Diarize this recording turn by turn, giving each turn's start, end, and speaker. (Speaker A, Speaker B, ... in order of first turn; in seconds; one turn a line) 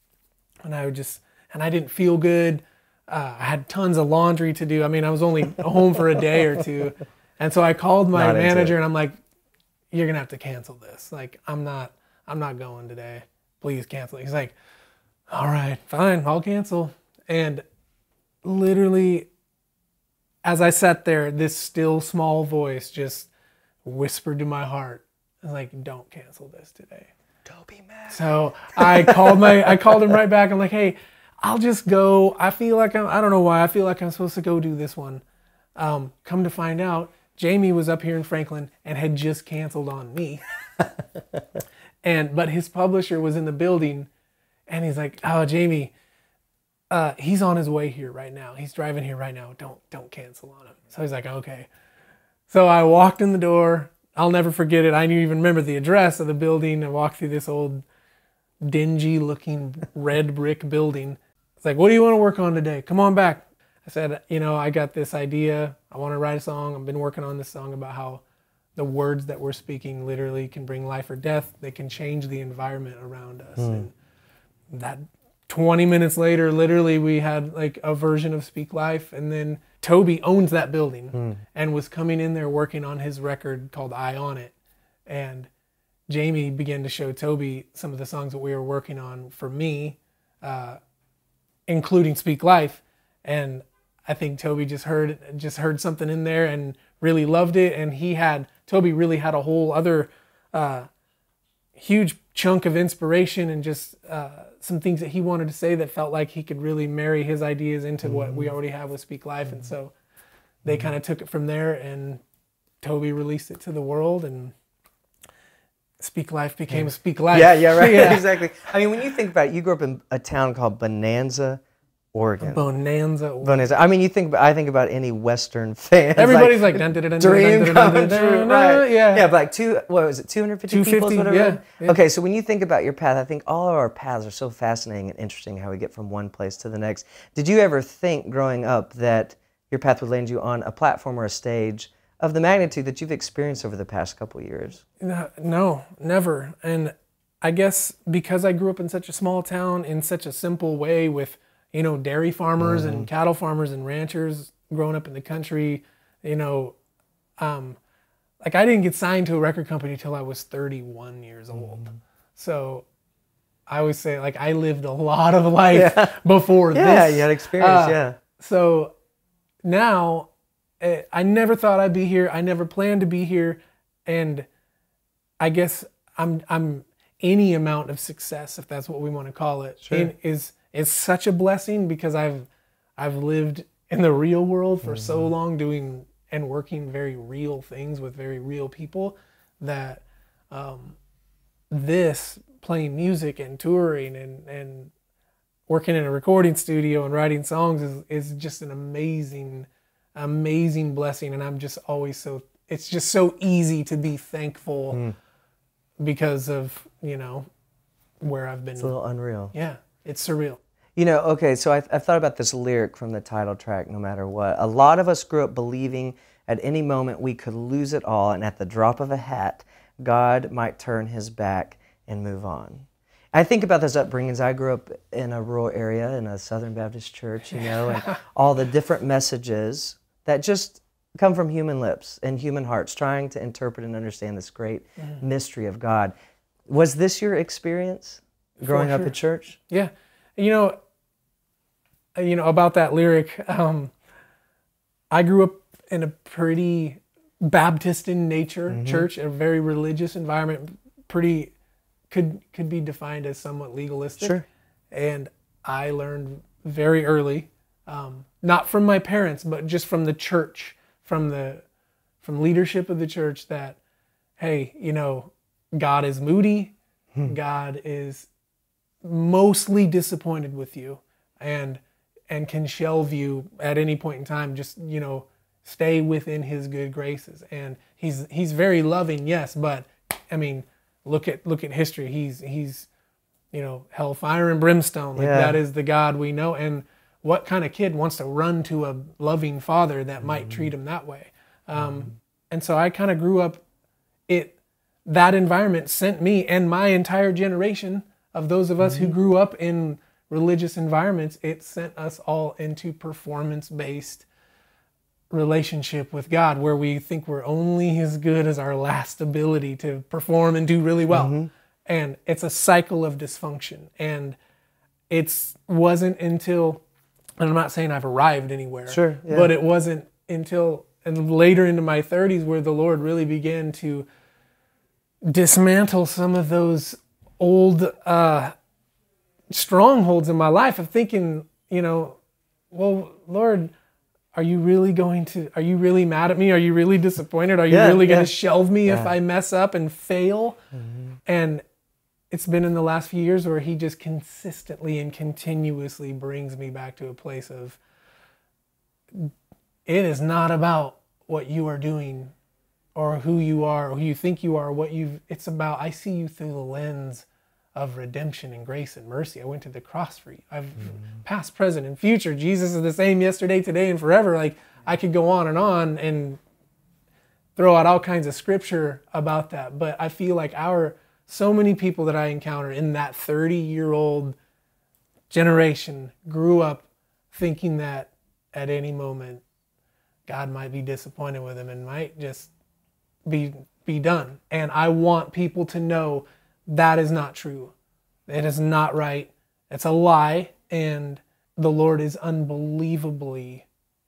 Speaker A: 0.6-9.2
Speaker B: 8.1-8.8
Speaker A: 9.9-14.6
Speaker A: 15.3-17.6
Speaker A: 18.4-19.3
Speaker A: 20.4-23.3
Speaker A: 23.8-27.1
Speaker B: 27.5-28.2
Speaker A: 28.1-35.2
Speaker B: 28.8-30.0
Speaker A: 35.8-40.4
Speaker A: 42.0-44.1
Speaker A: 44.7-45.9
Speaker A: 46.9-51.7
Speaker A: 52.5-57.8
Speaker A: 58.6-68.2
Speaker A: 68.8-73.9
Speaker B: 73.6-73.8
Speaker A: 74.7-84.5
Speaker B: 81.1-81.4
Speaker A: 85.1-85.5
Speaker A: 86.1-90.8
Speaker A: 91.7-100.9
Speaker A: 101.8-109.9
Speaker B: 108.0-108.5
Speaker A: 110.7-112.2
Speaker A: 112.8-114.5
Speaker A: 116.0-118.3
Speaker B: 116.7-121.6
Speaker B: 122.1-122.6
Speaker A: 122.4-123.7
Speaker B: 123.4-144.8
Speaker A: 126.2-129.3
Speaker A: 130.7-132.0
Speaker A: 145.0-156.8
Speaker B: 152.6-153.1
Speaker A: 157.4-157.8
Speaker A: 158.4-162.9
Speaker A: 163.7-168.9
Speaker B: 165.7-166.2
Speaker B: 166.7-168.2
Speaker A: 169.6-174.5
Speaker A: 175.4-191.0
Speaker B: 179.8-180.1
Speaker B: 184.8-185.3
Speaker A: 191.7-194.9
Speaker A: 195.7-205.0
Speaker A: 206.0-207.5
Speaker A: 208.2-208.9
Speaker B: 208.8-209.5
Speaker A: 209.5-210.6
Speaker B: 211.0-236.1
Speaker A: 227.5-228.2
Speaker B: 236.7-239.6
Speaker A: 238.6-239.2
Speaker A: 239.7-240.8
Speaker A: 242.2-243.9
Speaker A: 245.1-251.5
Speaker B: 248.7-249.1
Speaker A: 252.1-261.6
Speaker B: 254.2-254.5
Speaker A: 262.2-263.8
Speaker A: 264.4-266.7
Speaker A: 267.2-268.3
Speaker A: 269.0-282.9
Speaker A: 283.5-293.6
Speaker B: 285.2-285.6
Speaker B: 290.2-290.7
Speaker A: 294.3-304.3
Speaker B: 298.8-299.1
Speaker A: 305.3-314.4
Speaker B: 311.1-311.5
Speaker A: 315.1-316.8
Speaker A: 317.4-324.1
Speaker B: 318.9-319.5
Speaker A: 325.2-328.5
Speaker A: 329.5-332.2
Speaker A: 332.7-333.7
Speaker A: 334.3-340.6
Speaker B: 337.7-338.3
Speaker B: 338.9-339.1
Speaker B: 340.7-341.2
Speaker A: 341.3-341.6
Speaker A: 342.3-347.8
Speaker A: 349.9-352.3
Speaker A: 352.9-366.4
Speaker A: 367.6-374.4
Speaker A: 375.3-379.4
Speaker A: 380.3-382.5
Speaker A: 383.3-387.7
Speaker A: 388.3-393.7